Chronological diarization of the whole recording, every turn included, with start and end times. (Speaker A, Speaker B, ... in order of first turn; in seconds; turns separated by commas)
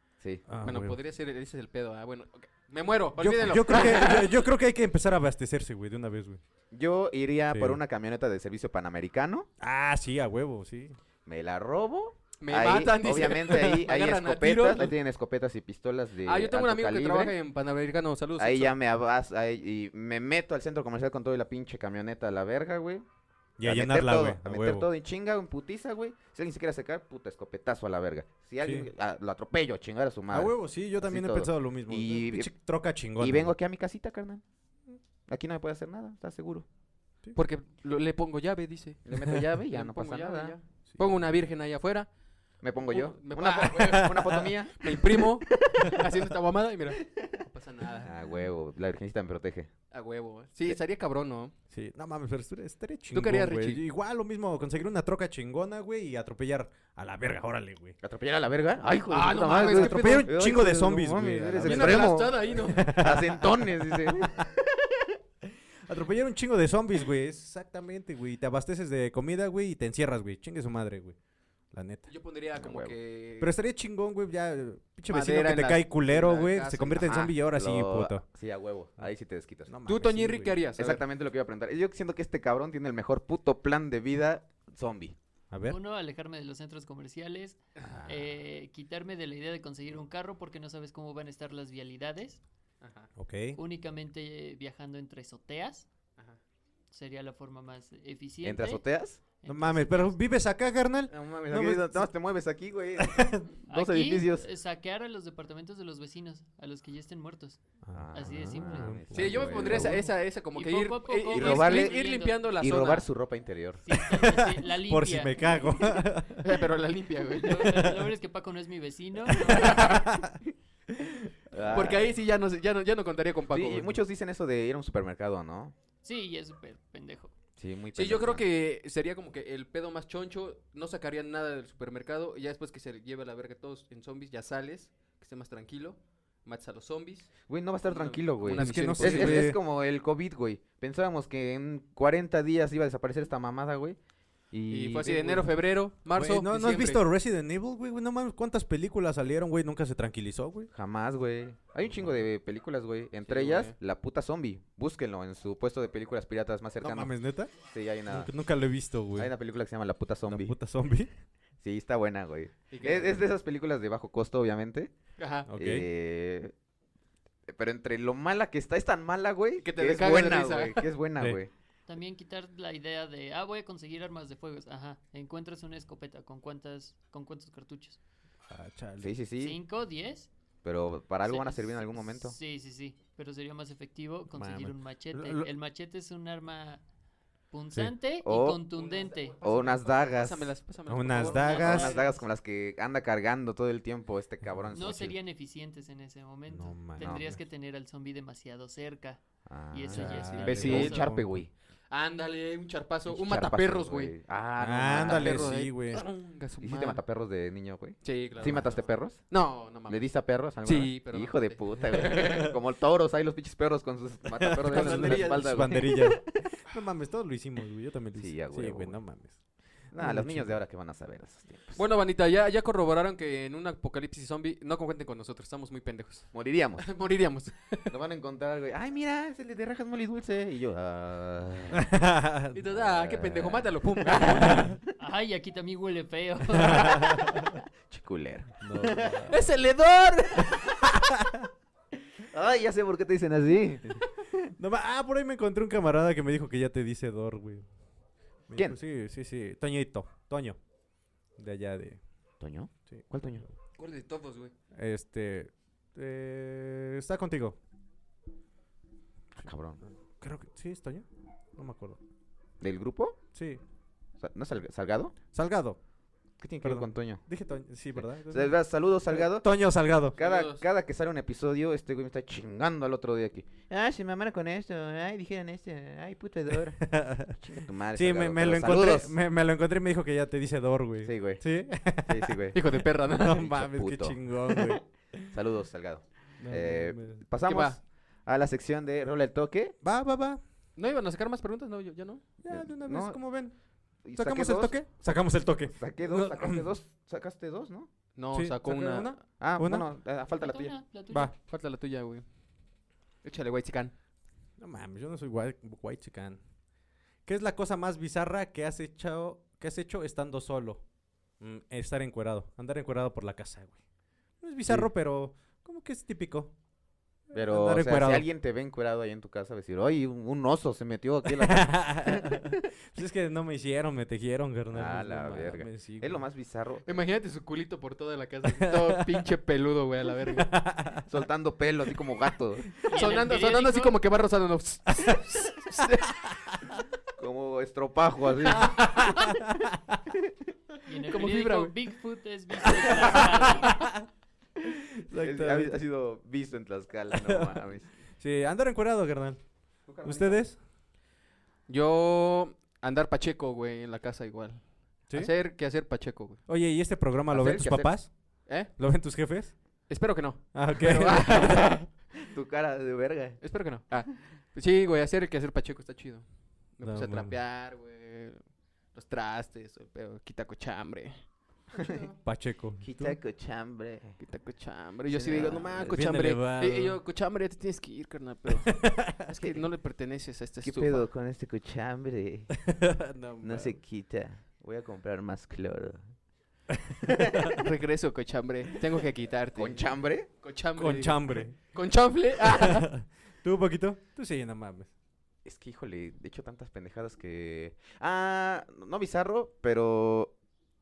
Speaker A: 0.5-1.0, Speaker B: 0.6-4.4, Speaker A: 3.2-6.4, Speaker C: 6.7-9.5, Speaker A: 7.5-7.8, Speaker A: 9.6-11.0, Speaker C: 11.2-17.3, Speaker B: 12.4-14.9, Speaker B: 16.2-18.7, Speaker C: 18.4-23.0, Speaker A: 23.6-24.9, Speaker C: 23.6-32.5, Speaker A: 28.6-28.9, Speaker A: 30.3-33.5, Speaker C: 33.2-34.4, Speaker C: 35.3-36.6, Speaker B: 37.3-39.0, Speaker C: 39.0-40.5, Speaker B: 39.7-42.1, Speaker C: 42.6-46.0, Speaker B: 42.8-48.1, Speaker A: 43.7-44.5, Speaker C: 48.0-49.7, Speaker B: 49.9-51.5, Speaker A: 51.7-58.0, Speaker B: 53.1-53.8, Speaker C: 58.0-65.1, Speaker B: 59.1-60.3, Speaker A: 59.5-63.5, Speaker B: 61.6-63.0, Speaker A: 65.8-71.2, Speaker A: 71.7-72.1, Speaker B: 72.1-73.5, Speaker C: 72.6-73.0, Speaker A: 73.4-78.2, Speaker B: 75.1-77.2, Speaker C: 77.0-79.7, Speaker A: 79.7-80.6, Speaker B: 79.8-81.0, Speaker C: 80.8-85.2, Speaker A: 85.5-85.8, Speaker D: 85.7-92.4, Speaker B: 92.8-93.1, Speaker A: 93.2-93.6, Speaker D: 93.5-95.9, Speaker D: 96.9-100.2, Speaker C: 98.4-99.2, Speaker A: 99.5-102.1, Speaker C: 101.1-104.5, Speaker A: 103.0-103.5, Speaker D: 103.7-107.6, Speaker A: 107.8-109.9, Speaker C: 107.9-110.0, Speaker D: 108.1-112.5, Speaker B: 109.1-113.1, Speaker C: 111.3-113.8, Speaker D: 113.8-116.0, Speaker A: 113.9-116.6, Speaker B: 116.4-117.9, Speaker D: 117.4-119.9, Speaker A: 117.7-118.0, Speaker B: 119.5-120.1, Speaker A: 119.5-120.3, Speaker C: 121.5-122.1, Speaker B: 121.7-124.0, Speaker C: 123.5-125.7, Speaker D: 126.0-127.3, Speaker C: 127.6-128.4, Speaker B: 127.9-137.3, Speaker C: 137.5-144.0, Speaker B: 137.9-139.5, Speaker A: 138.5-139.6, Speaker C: 144.5-145.5, Speaker B: 144.7-147.0, Speaker A: 146.1-150.7, Speaker C: 150.7-158.3, Speaker B: 153.3-153.7, Speaker A: 156.8-157.5, Speaker A: 158.1-159.3, Speaker C: 159.2-160.5, Speaker A: 160.3-161.1, Speaker C: 161.6-164.9, Speaker B: 162.7-163.2, Speaker B: 165.2-165.5, Speaker A: 165.5-165.8, Speaker C: 165.5-166.5, Speaker C: 167.5-171.5, Speaker B: 169.6-170.9, Speaker D: 171.9-178.0, Speaker A: 178.5-179.1, Speaker C: 179.0-179.6, Speaker D: 179.4-180.3, Speaker C: 180.6-182.4, Speaker D: 181.2-186.8, Speaker A: 184.3-185.5, Speaker D: 187.5-189.4, Speaker C: 188.2-188.6, Speaker B: 188.8-192.2, Speaker C: 189.4-190.5, Speaker A: 190.9-191.9, Speaker D: 191.2-192.2, Speaker C: 191.4-195.1, Speaker D: 194.7-201.1, Speaker A: 196.5-197.3, Speaker C: 197.0-197.3, Speaker C: 199.4-201.5, Speaker A: 199.9-201.4, Speaker B: 200.3-201.0, Speaker B: 201.9-204.1, Speaker C: 203.1-205.5, Speaker A: 204.6-206.0, Speaker B: 204.9-207.0, Speaker C: 206.6-216.3, Speaker B: 208.0-210.0, Speaker B: 210.6-212.5, Speaker A: 214.4-219.4, Speaker B: 214.7-215.6, Speaker C: 218.1-219.0, Speaker C: 219.9-221.8, Speaker A: 219.9-220.6, Speaker B: 221.7-227.9, Speaker C: 226.3-226.9, Speaker C: 227.9-231.9, Speaker A: 231.7-232.6, Speaker B: 232.5-234.8, Speaker C: 232.7-234.7, Speaker D: 235.0-237.1, Speaker A: 236.6-237.4, Speaker C: 237.9-239.2, Speaker A: 238.6-239.3, Speaker B: 239.3-240.7, Speaker C: 242.2-244.5, Speaker A: 244.6-247.7, Speaker A: 248.5-250.6, Speaker A: 251.4-252.0, Speaker C: 252.4-253.4, Speaker A: 252.9-253.5, Speaker B: 253.8-254.5, Speaker A: 254.7-257.6, Speaker C: 259.3-259.8, Speaker A: 260.2-261.0, Speaker A: 261.6-262.0, Speaker C: 262.6-263.2, Speaker A: 263.3-263.6, Speaker C: 264.2-265.1, Speaker A: 265.3-265.8, Speaker C: 266.4-267.2, Speaker A: 266.6-270.2, Speaker C: 268.3-269.5, Speaker C: 270.1-279.1, Speaker B: 270.1-270.6, Speaker A: 276.8-277.4, Speaker A: 277.9-282.4, Speaker C: 281.0-281.4, Speaker C: 282.0-282.6, Speaker B: 282.5-283.5, Speaker A: 283.1-285.3, Speaker C: 283.2-289.8, Speaker A: 286.4-287.2, Speaker B: 287.4-287.8, Speaker A: 289.8-290.4, Speaker B: 290.8-292.2, Speaker C: 292.4-293.4, Speaker A: 292.4-296.6, Speaker C: 294.0-297.9, Speaker B: 298.1-299.2, Speaker A: 298.3-299.9, Speaker C: 299.4-300.7, Speaker D: 300.4-301.3, Speaker B: 301.4-302.2, Speaker B: 303.2-303.9, Speaker A: 304.6-306.4, Speaker A: 307.2-310.8, Speaker A: 311.4-313.8, Speaker A: 314.4-316.5, Speaker C: 317.3-322.6, Speaker A: 317.3-318.2, Speaker A: 321.4-326.2, Speaker C: 324.7-326.9, Speaker B: 326.9-330.6, Speaker A: 328.4-329.0, Speaker A: 330.4-331.1, Speaker C: 331.1-332.7, Speaker D: 332.9-334.0, Speaker B: 332.9-336.2, Speaker C: 337.2-339.1, Speaker B: 338.5-339.1, Speaker A: 338.7-339.9, Speaker D: 340.8-343.8, Speaker B: 341.1-341.7, Speaker B: 343.0-343.4, Speaker A: 343.1-343.9, Speaker A: 345.1-345.8, Speaker C: 345.1-347.9, Speaker A: 347.1-347.6, Speaker A: 348.2-349.4, Speaker C: 349.9-350.4, Speaker A: 350.0-350.6, Speaker B: 351.7-356.4, Speaker A: 356.4-359.9, Speaker C: 357.3-358.0, Speaker B: 358.4-358.8, Speaker B: 359.9-361.9, Speaker A: 360.5-361.8, Speaker C: 361.2-363.4, Speaker B: 363.4-371.2, Speaker A: 366.8-367.4, Speaker C: 371.7-372.1, Speaker A: 371.7-373.2, Speaker C: 372.8-374.2, Speaker B: 374.2-381.1, Speaker C: 375.1-376.0, Speaker A: 375.7-377.0, Speaker A: 378.6-379.2, Speaker C: 379.4-379.6, Speaker C: 380.6-382.5, Speaker A: 382.6-383.8, Speaker C: 383.4-386.1, Speaker C: 387.0-387.5, Speaker B: 387.5-392.9, Speaker C: 389.5-390.3, Speaker A: 390.7-391.7, Speaker A: 392.4-394.9, Speaker C: 395.4-400.3